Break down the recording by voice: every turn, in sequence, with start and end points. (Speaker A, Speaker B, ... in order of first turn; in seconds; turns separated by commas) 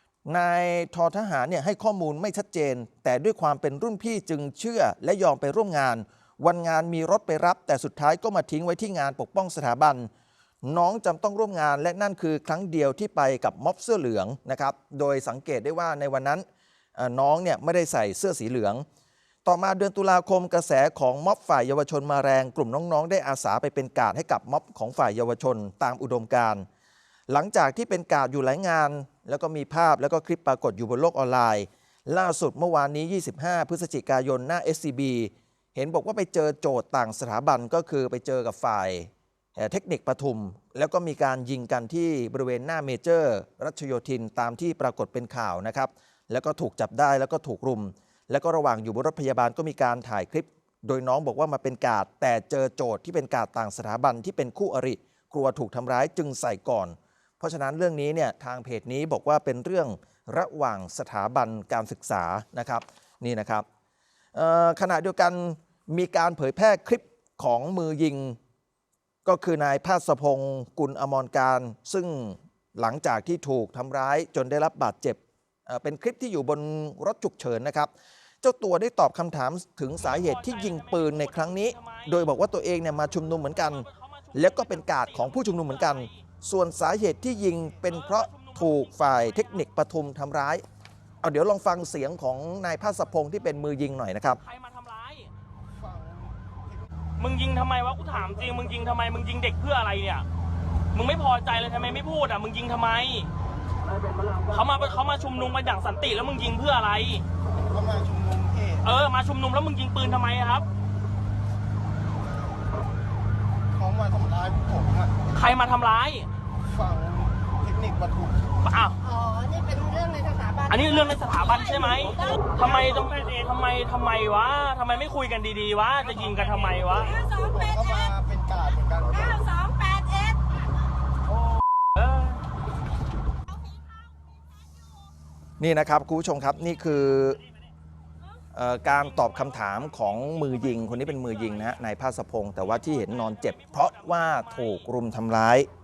Speaker A: 0.3-10.1, Speaker A: 10.6-16.4, Speaker A: 17.0-18.9, Speaker A: 19.4-26.7, Speaker A: 27.3-63.6, Speaker A: 64.3-68.4, Speaker A: 69.2-90.6, Speaker B: 80.0-82.1, Speaker B: 83.5-86.1, Speaker B: 87.8-89.6, Speaker A: 91.2-94.4, Speaker B: 94.4-95.3, Speaker C: 95.7-96.9, Speaker B: 97.2-100.3, Speaker B: 100.9-103.3, Speaker B: 104.4-107.2, Speaker C: 107.6-108.9, Speaker B: 108.8-110.7, Speaker C: 113.7-115.2, Speaker B: 115.3-116.3, Speaker C: 116.6-118.5, Speaker B: 118.6-119.0, Speaker D: 119.0-121.6, Speaker B: 120.7-127.2, Speaker D: 127.1-128.0, Speaker C: 127.4-129.5, Speaker D: 129.2-130.4, Speaker B: 132.0-132.4, Speaker A: 135.6-137.4, Speaker A: 138.5-145.7, Speaker B: 143.1-144.8